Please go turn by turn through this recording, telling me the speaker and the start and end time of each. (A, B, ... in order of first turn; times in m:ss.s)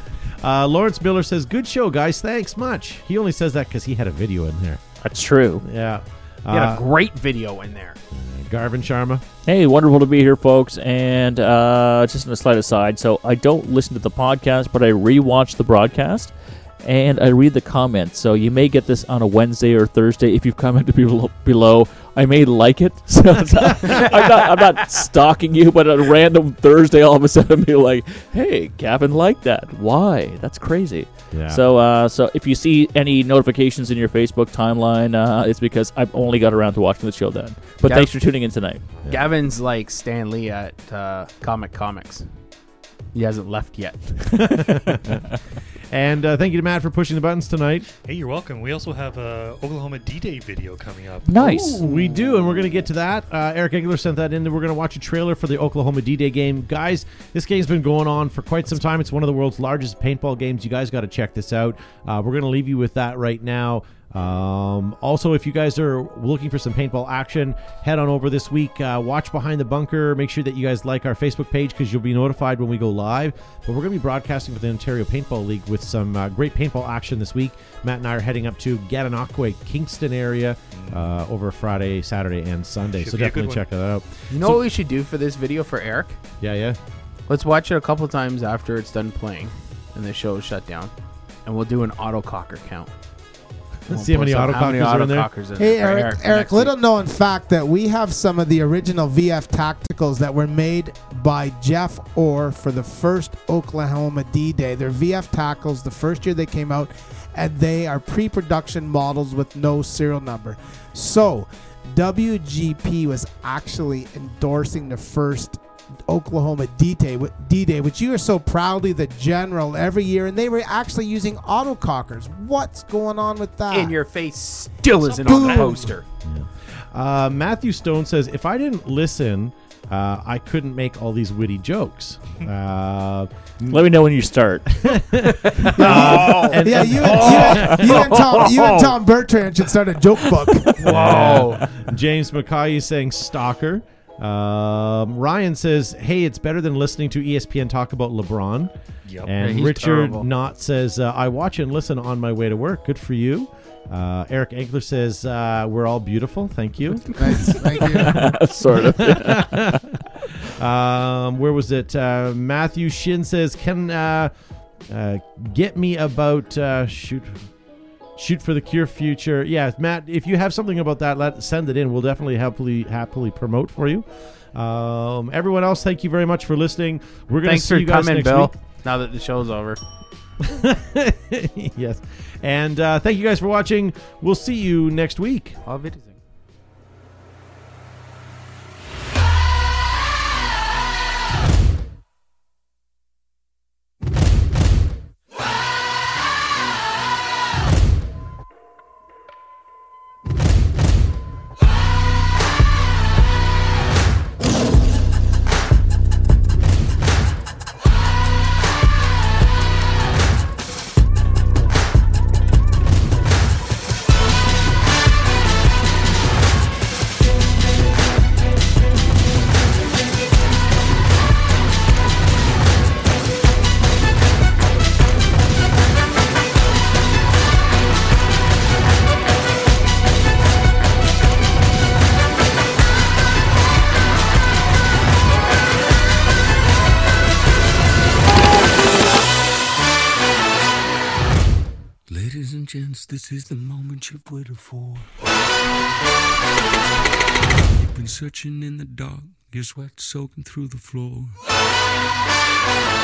0:00.4-0:04.8 A
0:05.0-0:05.6 B
0:05.6-0:06.8 A
0:06.5-0:08.0 C
0:08.1-0:09.2 A
0:09.4-0:16.3 B
0:16.8-0:38.8 B
0:23.8-0:25.1 C
0:31.3-0:31.6 A
0:37.8-0:38.1 C
0:39.0-0:39.3 A
0:39.1-0:42.2 C
0:43.1-0:44.7 C
0:44.4-0:45.2 A
0:45.9-0:47.9 A
0:48.0-0:51.7 D
0:51.2-0:51.8 B
0:51.7-1:24.6 A
0:51.8-0:52.6 C
1:20.7-1:21.1 D
1:23.0-1:23.6 D
1:24.3-1:26.2 C
1:26.4-1:26.8 A
1:27.3-1:30.9 C
1:31.4-1:32.9 C
1:33.9-1:36.7 C
1:33.9-1:35.3 A
1:35.6-2:04.0 E
2:03.7-2:06.0 C
2:05.0-2:05.7 D
2:05.2-2:05.9 E
2:06.2-2:13.8 A
2:13.7-2:15.0 B
2:14.8-2:18.0 A
2:15.6-2:19.0 C
2:15.8-2:20.8 E
2:20.8-2:21.6 C
2:20.8-2:28.7 A
2:29.0-2:29.3 D
2:29.2-2:37.5 A
2:29.4-2:30.3 C
2:37.2-2:38.4 E
2:37.8-2:39.8 B
2:38.7-2:44.3 A
2:44.9-2:47.4 A
2:48.2-2:58.5 A
2:57.4-2:59.8 C
3:00.4-3:05.6 A
3:05.6-3:06.2 C
4:02.1-4:05.1 F
4:07.8-4:11.3 F